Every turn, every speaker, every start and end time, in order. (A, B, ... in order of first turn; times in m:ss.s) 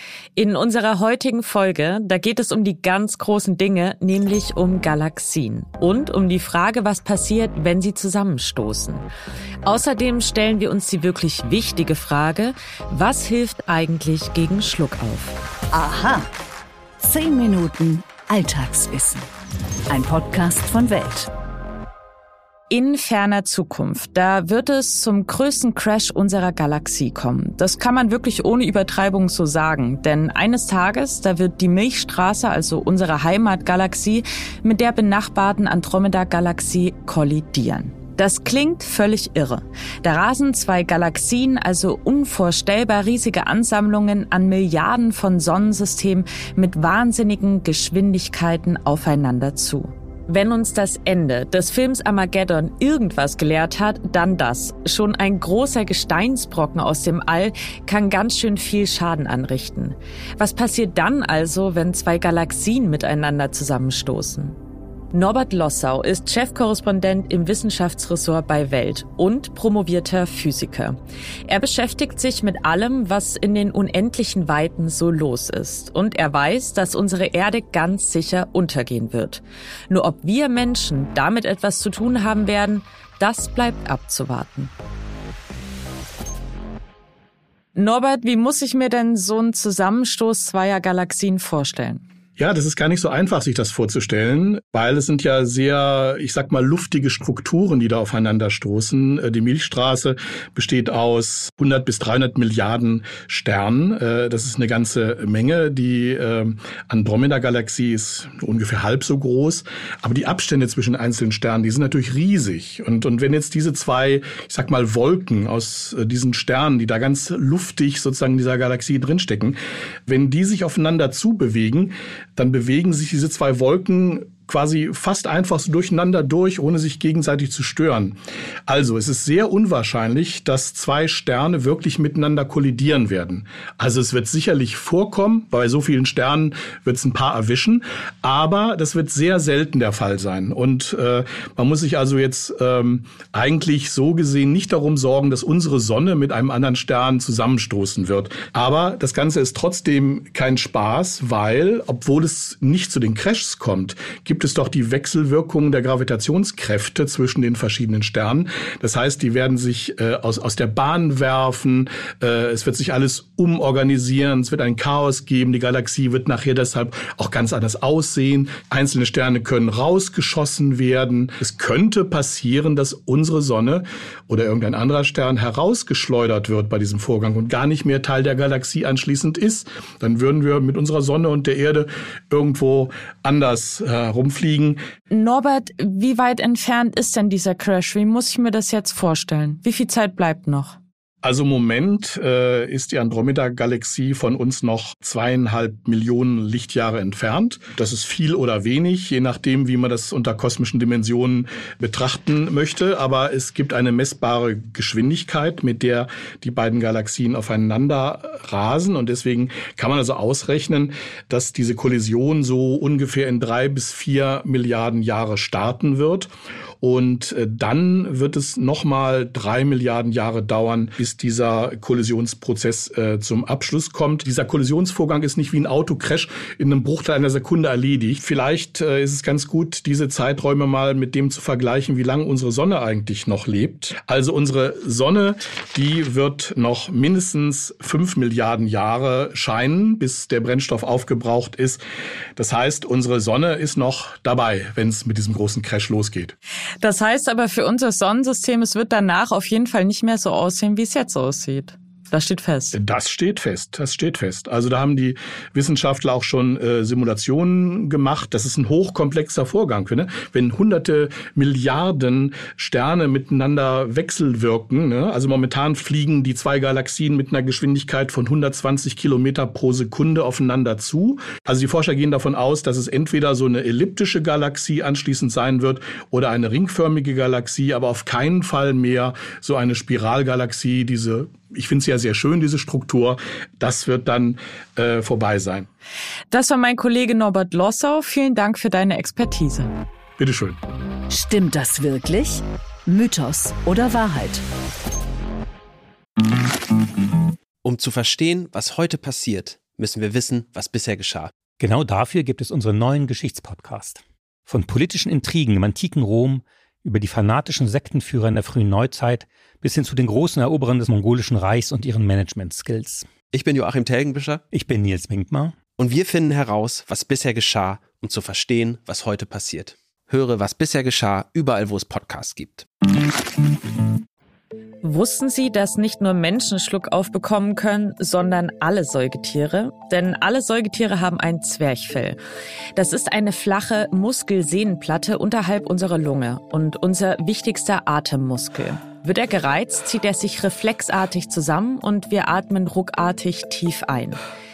0:00.4-0:09.0 A
0:09.6-0:15.4 A
0:15.7-0:16.3 B
0:17.0-0:19.3 B
0:19.9-0:21.3 B
0:22.7-1:04.6 A
1:05.1-1:24.7 A
1:27.7-1:32.0 A
1:32.4-3:04.8 C
3:05.1-3:10.8 A
3:11.2-3:36.3 C
3:36.8-4:01.8 C
4:02.4-4:06.3 C
4:06.8-4:12.8 A
4:12.7-4:45.7 C
4:46.3-4:49.7 A
4:50.2-4:50.6 C
4:51.1-4:54.4 B
4:57.6-5:01.3 D
5:01.6-5:13.1 E
5:13.3-5:14.4 D
5:14.5-5:15.6 E
5:15.8-5:22.7 D
5:24.8-5:32.2 A
5:32.8-5:44.2 A